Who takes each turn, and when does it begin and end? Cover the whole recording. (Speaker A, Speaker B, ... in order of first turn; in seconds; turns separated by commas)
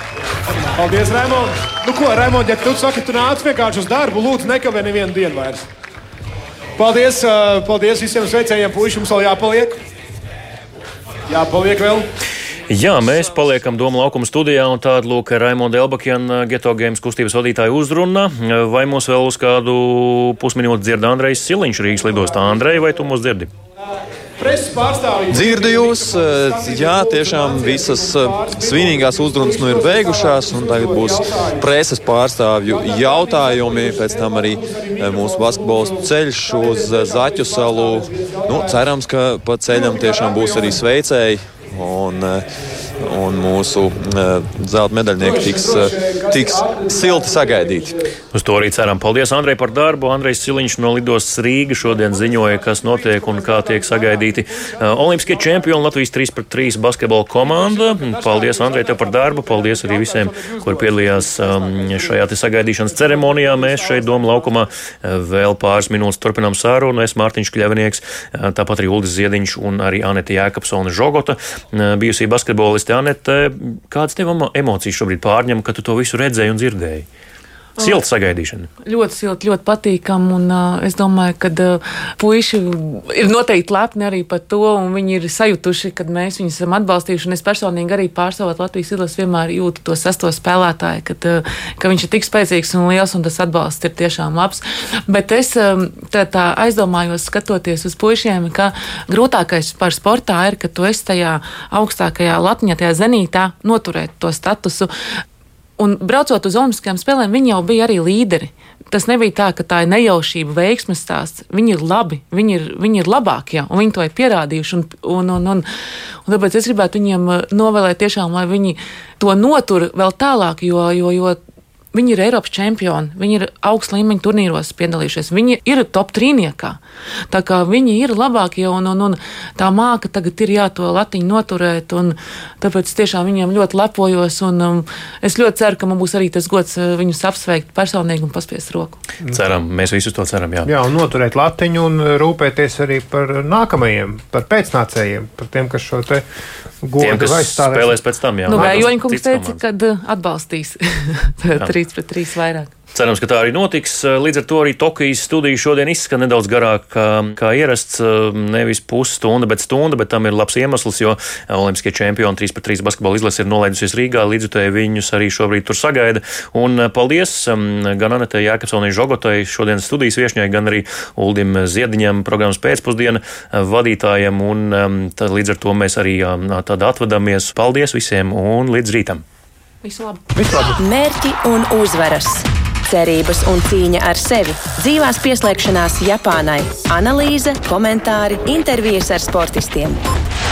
Speaker A: 0.7-5.6, Speaker A: 6.8-9.8, Speaker A: 11.3-12.1, Speaker B: 12.7-23.5, Speaker A: 22.5-22.8, Speaker A: 24.4-31.7, Speaker C: 25.3-42.4, Speaker A: 32.7-38.8, Speaker A: 39.7-40.8, Speaker C: 43.0-47.9, Speaker A: 45.2-48.1, Speaker B: 48.3-77.0, Speaker A: 51.8-55.9, Speaker A: 57.4-64.7, Speaker B: 77.8-78.7, Speaker D: 78.8-104.9, Speaker D: 105.8-115.7, Speaker D: 116.2-121.4, Speaker D: 121.9-126.8, Speaker D: 127.3-139.0, Speaker B: 139.3-140.7, Speaker E: 140.6-146.2, Speaker E: 146.8-148.9, Speaker B: 147.0-149.6, Speaker D: 148.5-152.7, Speaker B: 152.9-179.2, Speaker D: 179.8-180.3, Speaker F: 180.6-190.0